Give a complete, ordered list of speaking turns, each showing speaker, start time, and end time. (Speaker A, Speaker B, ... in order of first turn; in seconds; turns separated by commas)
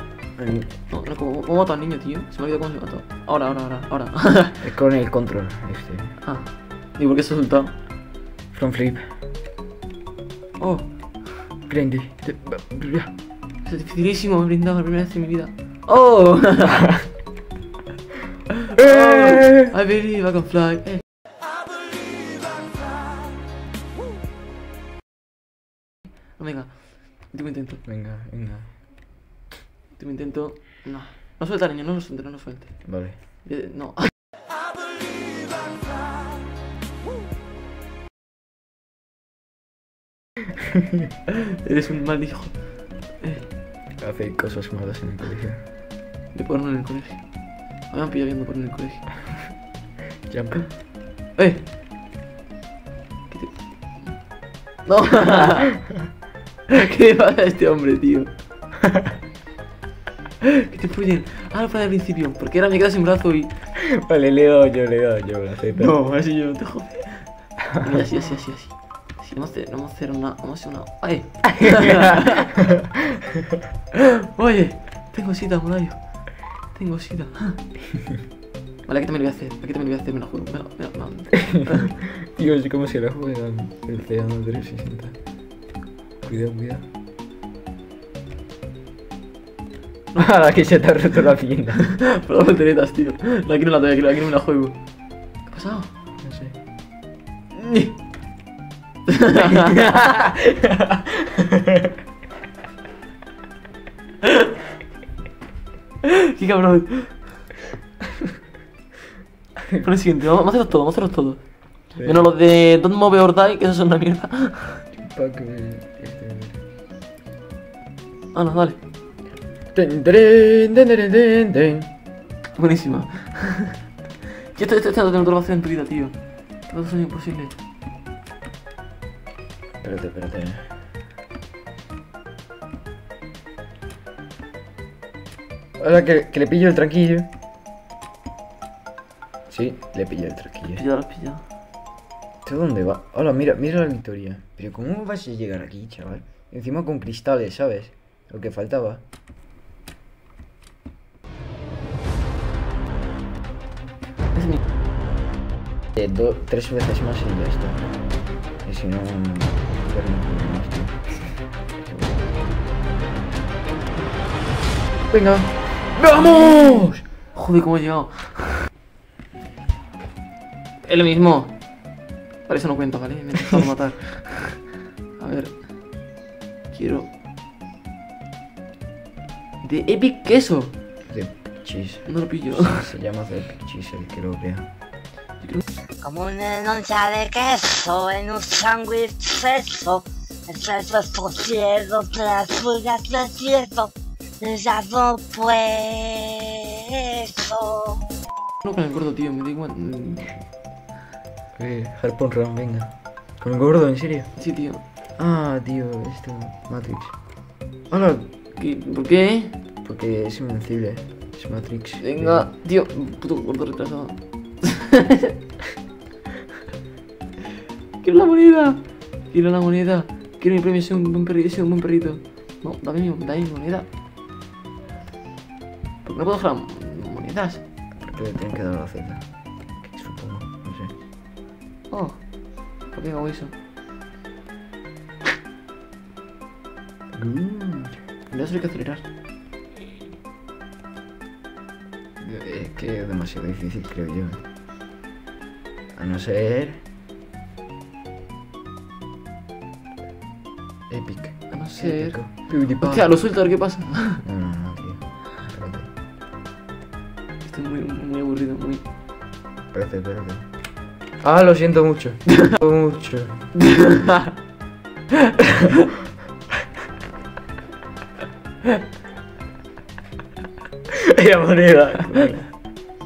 Speaker A: 0.3-0.7, Speaker B: 0.9-4.6, Speaker A: 4.6-6.2, Speaker B: 6.2-7.7, Speaker A: 8.5-9.1, Speaker B: 10.6-11.5, Speaker A: 11.7-13.1, Speaker B: 13.6-16.8, Speaker B: 18.7-21.0, Speaker A: 18.8-19.7, Speaker B: 26.4-27.8, Speaker A: 27.9-28.8, Speaker B: 29.9-32.8, Speaker A: 32.8-33.2, Speaker B: 33.4-34.1, Speaker B: 41.6-43.5, Speaker A: 44.0-45.6, Speaker B: 46.3-47.3, Speaker B: 47.8-49.0, Speaker A: 50.3-50.7, Speaker B: 51.4-51.6, Speaker B: 53.3-54.2, Speaker B: 54.8-55.7, Speaker B: 56.7-58.3, Speaker B: 60.5-63.5, Speaker A: 63.8-66.0, Speaker B: 65.8-72.5, Speaker B: 74.3-77.6, Speaker B: 78.8-81.8, Speaker A: 81.4-85.2, Speaker A: 86.2-86.8, Speaker A: 90.1-91.9, Speaker B: 92.0-94.7, Speaker B: 95.4-95.9, Speaker A: 96.2-96.5, Speaker B: 97.6-97.9, Speaker B: 99.1-99.7, Speaker A: 99.4-101.6, Speaker B: 106.0-107.2, Speaker B: 109.8-114.8, Speaker A: 111.9-112.3, Speaker A: 114.9-116.6, Speaker B: 118.3-118.8, Speaker A: 119.7-121.9, Speaker B: 122.5-123.7, Speaker B: 124.5-127.5, Speaker A: 129.8-130.7, Speaker A: 135.8-137.3, Speaker A: 139.5-140.8, Speaker B: 140.8-141.4, Speaker A: 142.4-149.0, Speaker A: 155.9-161.1, Speaker A: 161.7-162.3, Speaker A: 165.1-167.0, Speaker B: 167.3-168.7, Speaker B: 170.8-171.6, Speaker B: 172.5-174.6, Speaker B: 175.2-175.5, Speaker B: 176.7-177.1, Speaker B: 179.6-180.7, Speaker A: 181.1-184.7, Speaker B: 182.1-182.8, Speaker C: 186.0-198.0, Speaker B: 198.7-200.3, Speaker A: 201.6-204.3, Speaker B: 204.4-204.8, Speaker A: 205.2-207.3, Speaker A: 207.8-208.3, Speaker B: 208.6-209.5, Speaker A: 209.8-212.5, Speaker B: 212.0-215.3, Speaker B: 218.0-223.8, Speaker B: 226.0-227.6, Speaker A: 227.9-230.9, Speaker B: 231.9-233.5, Speaker A: 237.1-238.0, Speaker B: 238.3-239.0, Speaker A: 242.2-244.4, Speaker A: 245.9-246.8, Speaker A: 250.9-255.9, Speaker B: 251.5-252.2, Speaker B: 252.8-254.2, Speaker B: 257.4-258.8, Speaker A: 259.7-260.5, Speaker A: 261.2-263.5, Speaker B: 263.6-264.3, Speaker A: 271.1-272.5